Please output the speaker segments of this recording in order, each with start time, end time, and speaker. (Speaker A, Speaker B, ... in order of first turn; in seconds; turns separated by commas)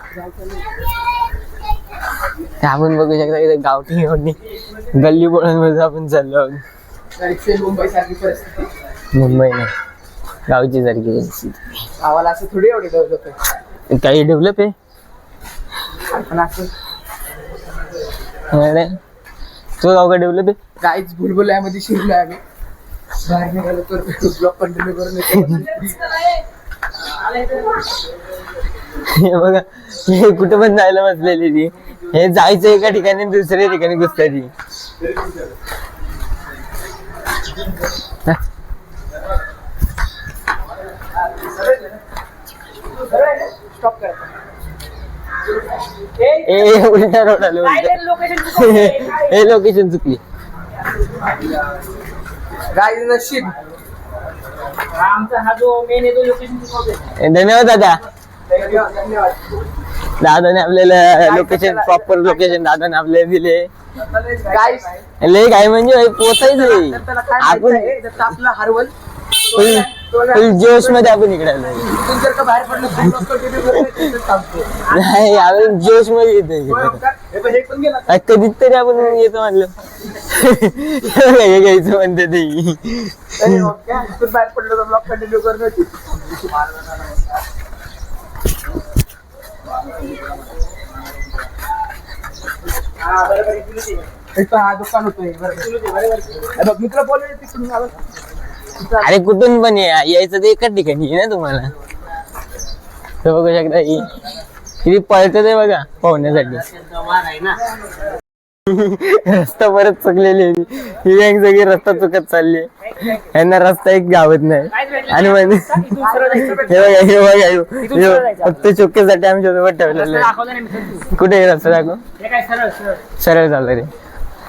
Speaker A: 0.1-0.6, Speaker B: 2.6-4.4, Speaker B: 4.9-6.6, Speaker A: 7.2-8.7, Speaker B: 9.1-9.7, Speaker B: 10.5-11.8, Speaker A: 12.0-13.3, Speaker B: 13.9-14.7, Speaker A: 16.1-16.7, Speaker B: 18.5-19.0, Speaker B: 19.8-20.6, Speaker A: 20.8-22.4, Speaker A: 23.2-25.9, Speaker B: 29.0-34.5, Speaker A: 41.3-42.0, Speaker C: 43.1-43.5, Speaker A: 43.6-44.3, Speaker C: 46.2-46.7, Speaker B: 46.4-50.2, Speaker C: 47.6-49.5, Speaker A: 52.7-53.5, Speaker C: 54.9-57.1, Speaker B: 57.2-58.0, Speaker A: 58.5-59.6, Speaker B: 60.2-63.7, Speaker A: 61.2-62.5, Speaker A: 63.9-65.0, Speaker B: 65.2-67.9, Speaker A: 66.4-68.9, Speaker A: 69.5-71.1, Speaker B: 69.5-71.9, Speaker A: 71.8-74.8, Speaker C: 74.8-75.7, Speaker B: 74.9-77.0, Speaker A: 76.7-78.2, Speaker B: 78.1-83.5, Speaker A: 83.4-87.4, Speaker C: 93.0-94.0, Speaker A: 94.3-95.7, Speaker C: 95.6-96.5, Speaker A: 96.5-98.0, Speaker A: 98.8-99.1, Speaker B: 99.0-101.7, Speaker B: 103.2-104.2, Speaker B: 104.8-106.7, Speaker C: 106.9-107.6, Speaker B: 108.7-112.7, Speaker C: 112.9-113.2, Speaker B: 113.2-115.8, Speaker C: 114.7-117.0, Speaker A: 116.0-117.0, Speaker B: 116.6-120.3, Speaker C: 117.8-118.7, Speaker C: 119.8-121.1, Speaker B: 121.1-122.0, Speaker C: 122.2-123.0, Speaker B: 123.2-123.9